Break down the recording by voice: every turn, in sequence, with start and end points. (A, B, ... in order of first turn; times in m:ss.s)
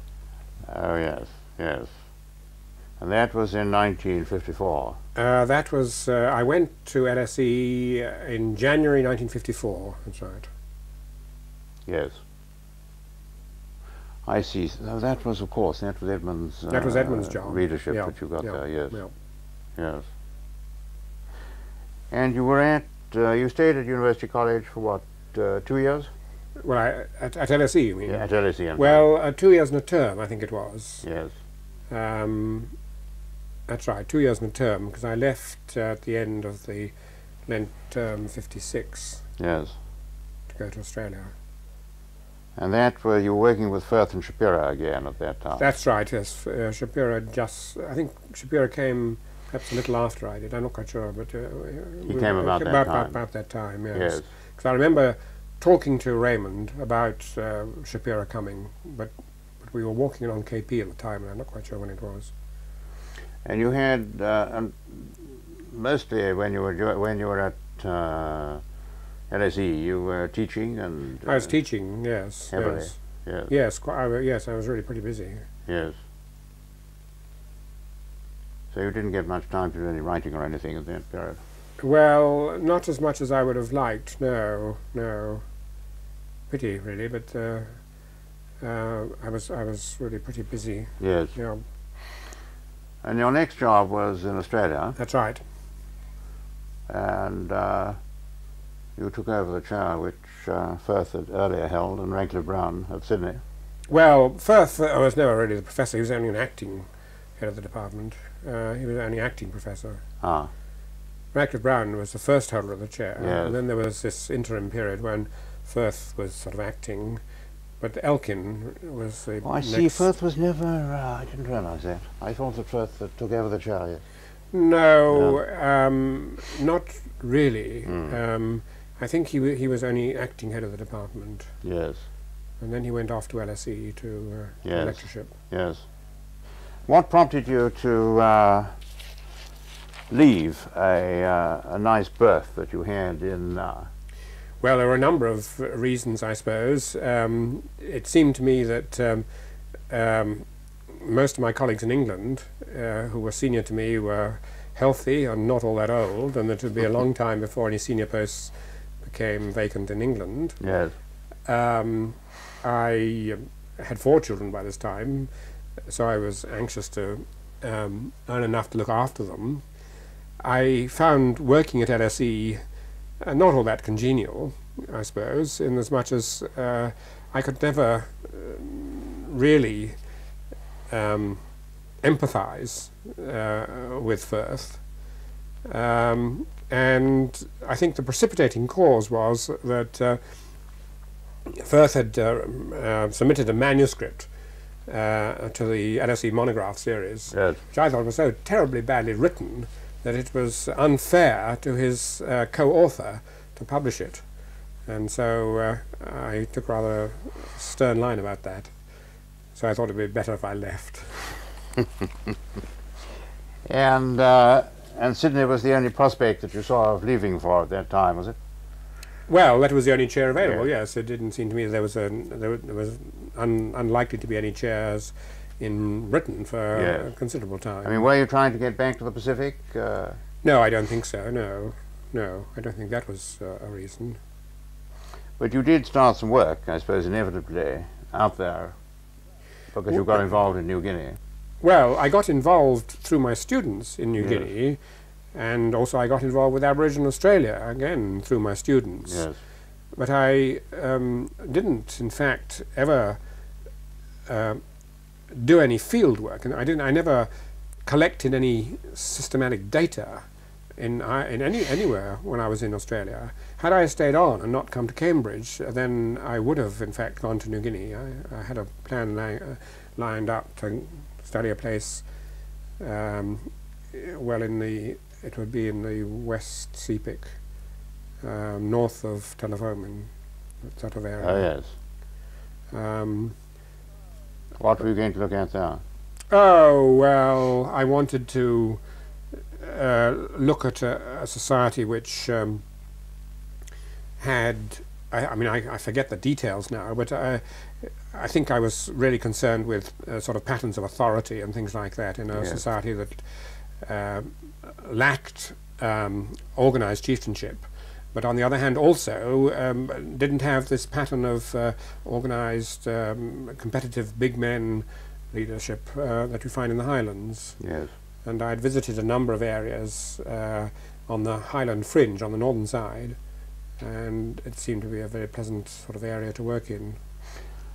0:00.6-0:01.9 A
0:03.0-0:05.0 A
0:05.2-0:10.5 B
0:11.9-0:12.2 A
0:14.2-0:19.0 A
0:16.7-0:19.1 B
0:19.8-0:20.1 A
0:22.1-0:26.1 A
0:26.6-0:31.0 B
0:28.1-0:29.1 A
0:31.0-0:31.4 A
0:31.9-0:32.7 B
0:33.7-0:36.9 B
0:37.5-0:39.3 B
0:39.4-0:39.8 A
0:40.5-0:41.3 B
0:42.6-0:45.7 A
0:45.6-1:02.3 B
0:52.1-0:53.2 A
0:53.9-0:54.3 A
1:03.4-1:08.6 A
1:09.3-1:11.5 A
1:11.3-1:15.5 B
1:12.5-1:13.5 A
1:15.7-1:16.0 A
1:18.7-1:21.4 A
1:21.8-1:25.4 B
1:26.5-1:27.8 B
1:28.6-1:31.6 B
1:31.0-1:31.4 A
1:33.0-1:35.0 A
1:35.0-1:35.4 B
1:36.9-1:38.0 A
1:39.0-1:43.4 A
1:43.9-1:50.0 B
1:50.2-1:50.5 A
1:51.3-1:57.2 B
1:53.2-1:53.6 A
1:57.8-2:00.1 B
1:59.4-2:04.0 A
2:04.5-2:11.5 B
2:05.1-2:05.4 A
2:07.9-2:08.2 A
2:11.6-2:12.1 A
2:12.6-2:15.3 B
2:14.6-2:15.9 A
2:16.9-2:19.0 A
2:20.1-2:23.9 A
2:24.6-2:29.3 B
2:29.9-2:40.6 B
2:40.6-2:41.0 A
2:41.5-2:45.3 B
2:45.9-2:49.6 B
2:50.4-2:52.6 B
2:53.2-3:00.0 B
3:00.9-3:01.4 B
3:02.0-3:04.8 B
3:05.7-3:10.4 B
3:11.5-3:14.3 B
3:14.9-3:24.2 B
3:17.3-3:17.6 A
3:24.9-3:28.7 B
3:29.6-3:31.4 B
3:33.7-3:38.4 A
3:39.3-3:48.0 B
3:40.4-3:40.7 A
3:46.7-3:47.1 A
3:47.8-3:50.2 A
3:50.4-3:54.2 B
3:55.4-3:58.8 A
3:59.7-4:01.2 A
4:01.6-4:04.8 B
4:04.2-4:04.5 A
4:05.3-4:09.3 B
4:09.1-4:09.4 A
4:10.0-4:13.2 B
4:14.3-4:14.6 B
4:15.3-4:17.3 B
4:17.8-4:20.3 B
4:20.8-4:32.0 B
4:32.8-4:37.4 B
4:38.2-4:40.1 B
4:40.6-4:41.5 B
4:41.2-4:41.7 A
4:42.7-4:43.4 B
4:44.6-4:45.8 A
4:46.3-4:48.8 B
4:49.5-4:52.6 B
4:54.2-5:17.6 B
5:02.3-5:02.6 A
5:17.6-5:17.9 A
5:18.2-5:23.2 B
5:23.8-5:27.0 B